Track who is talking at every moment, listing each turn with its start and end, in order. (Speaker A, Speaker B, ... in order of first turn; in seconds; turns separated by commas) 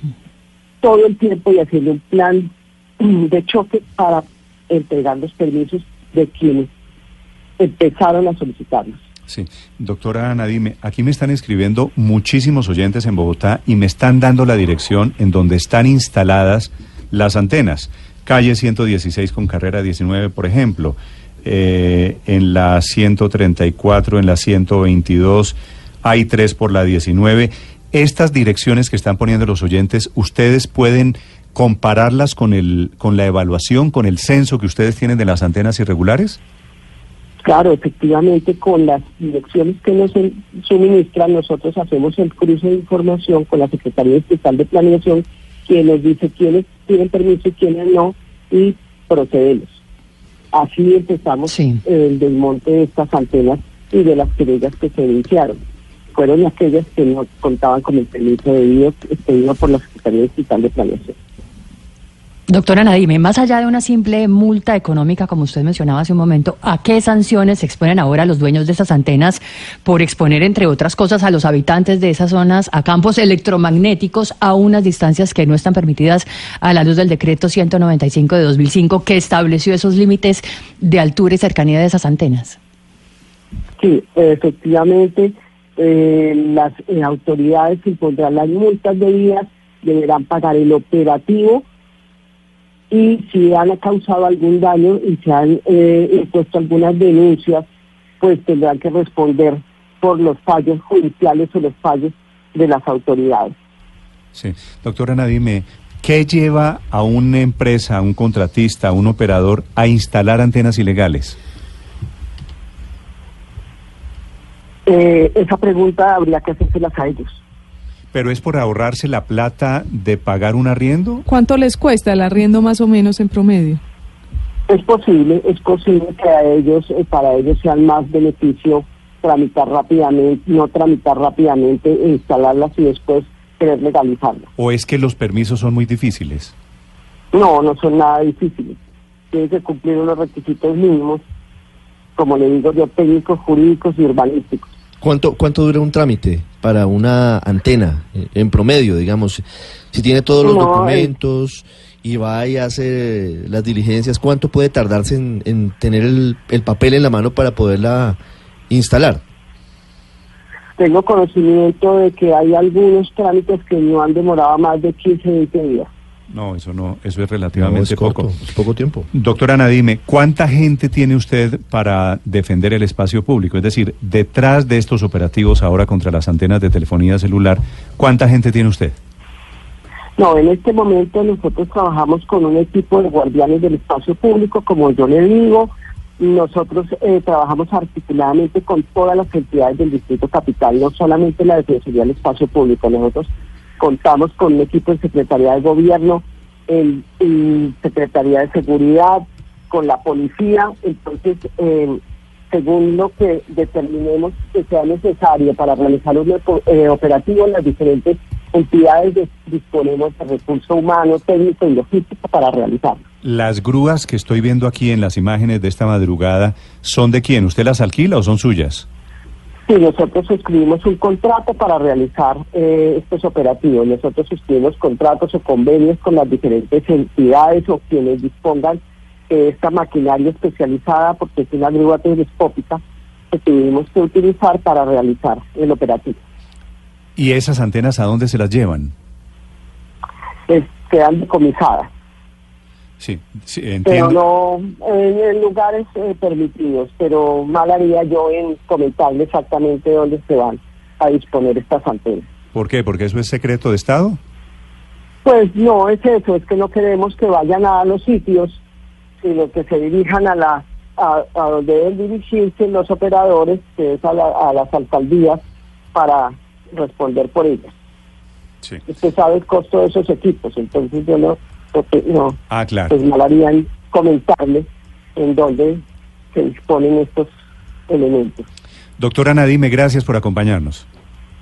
Speaker A: 0.8-2.5, Speaker A: 3.0-6.7, Speaker A: 7.6-9.0, Speaker B: 9.3-36.4, Speaker A: 37.4-49.8, Speaker A: 50.5-55.6, Speaker C: 51.5-51.8, Speaker A: 56.1-61.1, Speaker C: 62.5-82.6, Speaker A: 83.8-91.6, Speaker A: 92.9-97.6, Speaker A: 98.2-103.5, Speaker B: 104.3-111.4, Speaker A: 114.9-117.4, Speaker B: 118.1-121.2, Speaker D: 121.3-123.8, Speaker A: 124.7-134.5, Speaker B: 134.6-136.5, Speaker A: 137.3-138.8, Speaker A: 139.3-141.2, Speaker A: 142.2-144.7, Speaker E: 145.0-158.2, Speaker A: 150.4-151.1, Speaker E: 158.7-159.2, Speaker A: 160.8-165.9, Speaker B: 166.3-168.3, Speaker E: 167.6-169.1, Speaker B: 169.1-178.9, Speaker A: 180.2-193.3, Speaker A: 193.8-202.0, Speaker A: 202.5-213.0, Speaker B: 213.2-218.8, Speaker A: 219.7-232.8, Speaker A: 233.3-236.2, Speaker B: 237.2-238.9, Speaker A: 240.5-241.9, Speaker B: 243.0-244.2, Speaker A: 243.8-252.3, Speaker B: 252.5-254.2, Speaker A: 255.2-258.6, Speaker A: 259.2-265.4, Speaker A: 265.9-267.7, Speaker A: 268.9-277.3, Speaker B: 272.5-272.9, Speaker A: 277.9-278.5, Speaker B: 279.0-280.9